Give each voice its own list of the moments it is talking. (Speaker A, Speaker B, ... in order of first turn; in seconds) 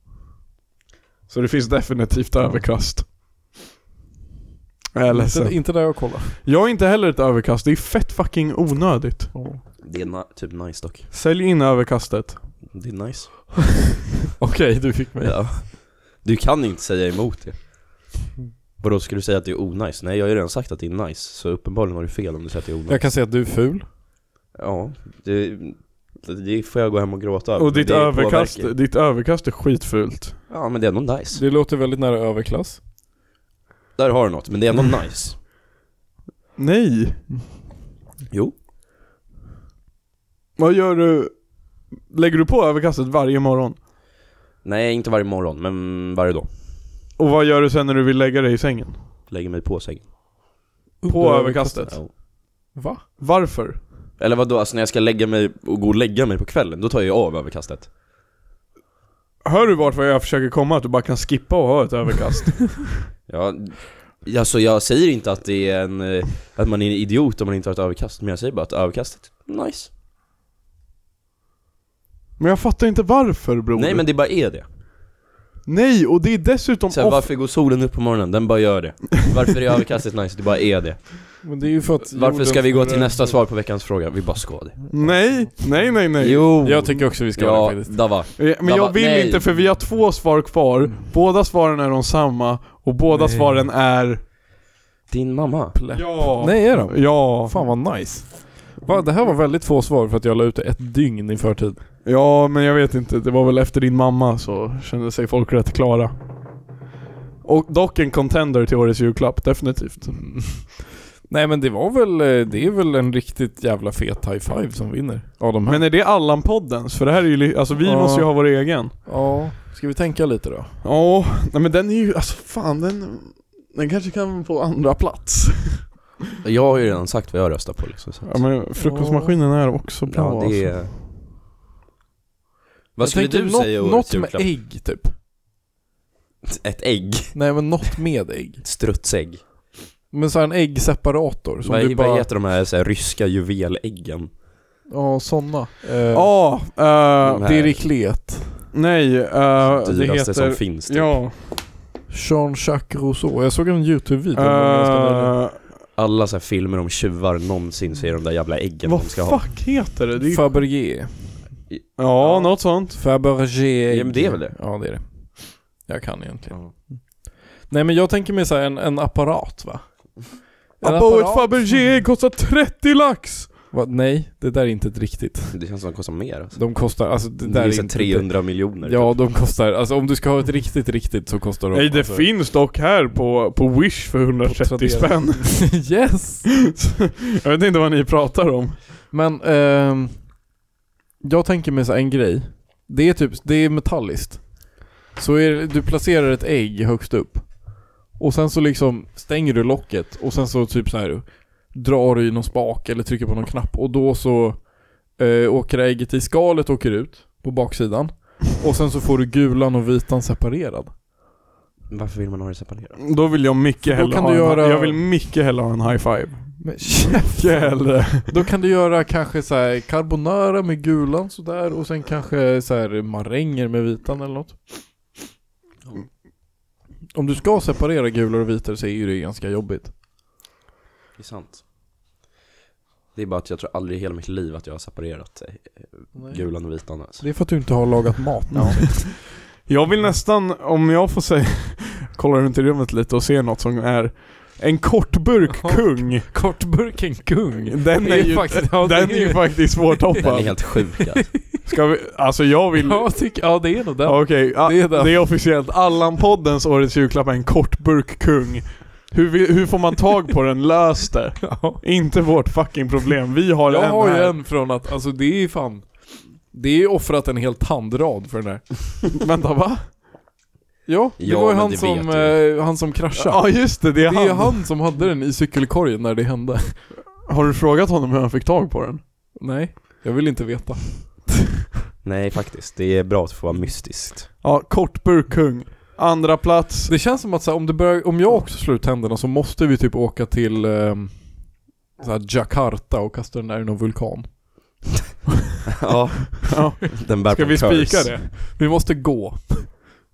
Speaker A: 1.3-3.1, 4.9-9.4, 11.1-12.6, 27.6-30.4, 36.6-37.3, 40.6-43.8, 47.2-49.0, 51.1-52.0, 53.2-53.8, 59.4-62.9, 72.4-74.1, 75.7-77.3, 84.9-86.5, 88.4-94.2, 95.9-98.1, 102.0-106.1, 107.4-110.5, 115.7-118.9, 120.8-125.9, 128.2-130.8, 146.1-147.4, 148.7-151.3, 154.3-155.6, 158.8-160.6, 162.0-163.0, 170.8-173.5, 181.7-185.8, 186.8-188.8, 213.0-218.3, 238.5-238.9, 239.6-246.3, 247.7-250.7, 251.6-253.4, 254.0-264.4, 269.1-269.9, 273.1-274.6, 277.2-279.0, 284.4-286.9, 296.5-298.3
Speaker B: 5.1-6.3, 9.3-9.6, 14.4-15.4, 22.9-23.9, 31.3-32.8, 51.0-52.2, 52.7-53.0, 81.4-83.4, 85.0-85.4, 86.6-88.0, 93.1-93.7, 95.7-101.8, 110.3-110.7, 111.3-115.9, 117.8-120.7, 128.8-129.4, 133.0-135.1, 137.3-138.6, 140.1-142.3, 144.9-146.6, 147.4-148.6, 152.1-155.3, 160.2-161.6, 162.2-171.8, 173.7-175.6, 176.5-182.3, 184.4-186.5, 189.1-190.4, 191.2-210.9, 213.8-215.0, 216.6-224.6, 227.1-229.9, 236.1-239.0, 245.6-251.4, 252.8-255.3, 261.4-261.8, 263.7-268.9, 270.9-276.9, 279.4-281.3, 286.9-294.4, 298.3-299.9
Speaker C: 9.8-11.1, 12.7-13.6, 15.2-17.9, 18.8-23.1, 24.5-28.7, 30.5-31.4, 34.0-35.4, 38.3-38.5, 44.6-46.5, 49.3-50.1, 51.9-52.1, 54.2-57.9, 63.3-69.9, 73.7-74.7, 76.9-81.5, 82.1-85.1, 86.2-89.5, 95.1-95.8, 126.4-128.5, 130.1-130.9, 132.9-134.5, 136.4-137.6, 138.6-139.7, 141.6-144.3, 147.2-147.8, 149.6-151.2, 155.9-159.5, 161.7-162.5, 163.9-164.6, 166.5-166.7, 175.5-179.2, 211.9-213.0, 231.2-231.6, 233.1-237.2, 250.2-251.4, 271.2-272.4, 282.0-284.3, 295.7-298.2